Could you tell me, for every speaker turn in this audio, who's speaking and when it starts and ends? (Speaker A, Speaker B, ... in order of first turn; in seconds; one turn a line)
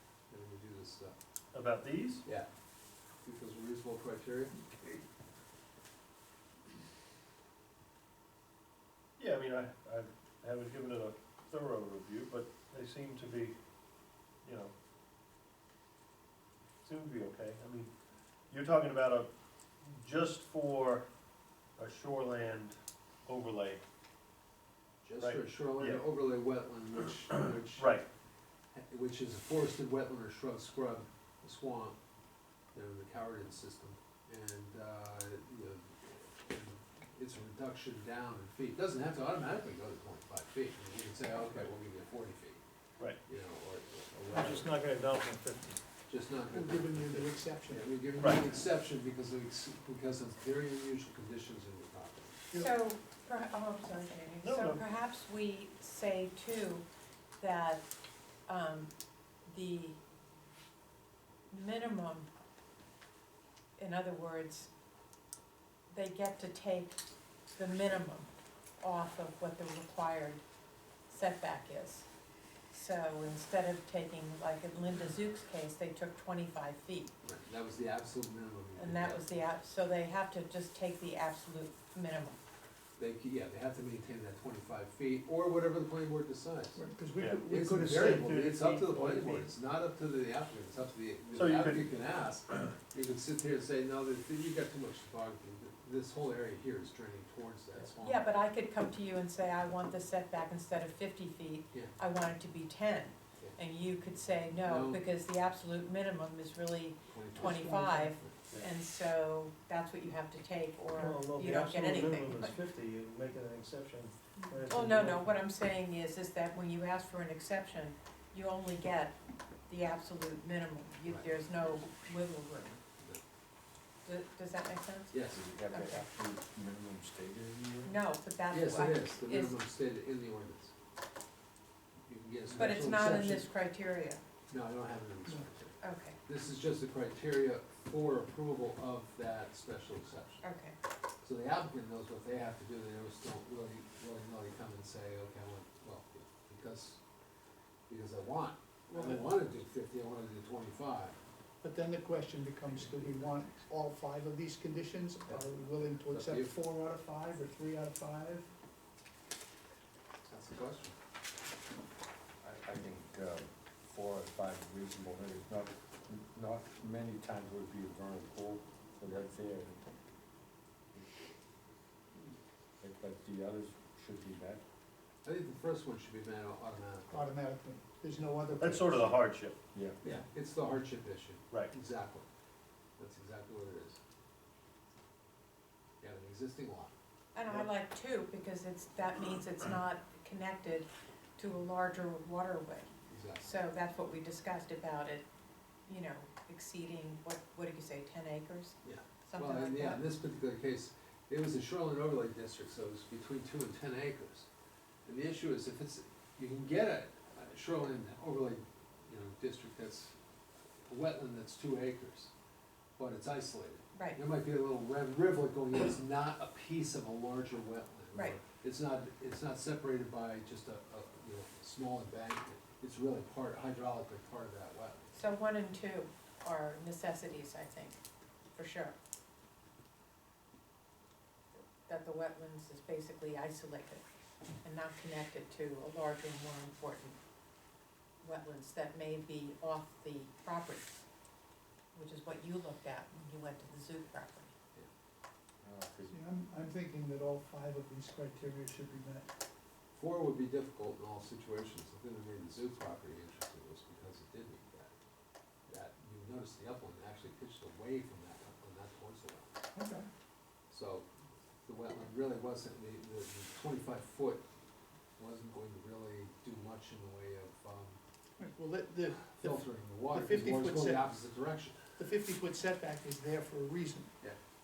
Speaker A: 0.3-1.1
Speaker B: 1.5-2.2
Speaker A: 3.2-4.9
Speaker B: 9.2-13.6
Speaker B: 14.4-14.7
Speaker B: 16.8-17.9
Speaker B: 18.5-19.3
Speaker B: 19.8-21.1
Speaker B: 21.8-23.8
Speaker A: 25.0-28.0
Speaker B: 25.2-26.0
Speaker B: 27.8-28.1
Speaker A: 28.7-32.0
Speaker A: 32.7-42.6
Speaker A: 43.2-44.7
Speaker C: 44.3-45.8
Speaker A: 46.1-52.4
Speaker D: 46.5-48.0
Speaker E: 52.5-56.9
Speaker B: 54.4-54.8
Speaker E: 57.4-57.9
Speaker E: 58.5-58.9
Speaker E: 59.5-60.0
Speaker E: 61.5-62.3
Speaker E: 63.8-64.7
Speaker E: 65.9-70.4
Speaker E: 71.1-72.1
Speaker E: 72.7-77.1
Speaker A: 77.2-79.4
Speaker E: 78.8-82.4
Speaker A: 83.0-86.8
Speaker D: 86.8-88.4
Speaker B: 87.2-87.5
Speaker A: 87.5-98.3
Speaker C: 87.8-89.5
Speaker B: 91.3-91.9
Speaker E: 98.0-112.6
Speaker A: 104.6-105.0
Speaker A: 107.1-107.9
Speaker D: 107.4-108.2
Speaker C: 110.9-115.4
Speaker E: 114.4-122.8
Speaker E: 124.0-125.1
Speaker A: 125.1-125.4
Speaker F: 125.3-127.9
Speaker E: 125.7-126.0
Speaker E: 127.8-129.6
Speaker A: 128.5-130.7
Speaker A: 132.1-133.5
Speaker E: 132.6-134.2
Speaker A: 134.5-140.4
Speaker E: 135.8-136.2
Speaker E: 140.4-140.8
Speaker A: 141.2-147.0
Speaker A: 147.9-151.2
Speaker D: 148.9-149.3
Speaker D: 151.6-158.5
Speaker A: 152.7-153.7
Speaker A: 155.3-156.5
Speaker A: 160.2-160.9
Speaker F: 162.4-169.8
Speaker F: 172.8-174.6
Speaker A: 175.2-177.3
Speaker D: 177.1-179.3
Speaker B: 178.6-179.6
Speaker F: 179.7-180.0
Speaker A: 180.0-182.3
Speaker A: 183.0-184.0
Speaker A: 186.0-186.9
Speaker E: 187.3-192.9
Speaker A: 193.1-193.5
Speaker E: 193.4-195.2
Speaker E: 195.9-200.0
Speaker A: 198.8-204.5
Speaker A: 205.1-210.2
Speaker A: 210.8-212.3
Speaker A: 213.0-225.1
Speaker E: 213.9-214.2
Speaker E: 218.1-218.4
Speaker E: 225.1-228.0
Speaker E: 228.6-228.9
Speaker E: 231.6-234.0
Speaker E: 234.6-237.2
Speaker E: 238.2-240.9
Speaker E: 241.9-244.5
Speaker F: 245.6-246.2
Speaker D: 246.1-249.3
Speaker A: 249.9-254.9
Speaker A: 255.7-259.6
Speaker D: 259.8-260.1
Speaker A: 260.7-261.1
Speaker A: 261.6-264.4
Speaker A: 265.2-268.0
Speaker D: 268.4-271.2
Speaker A: 269.4-271.8
Speaker D: 272.0-274.2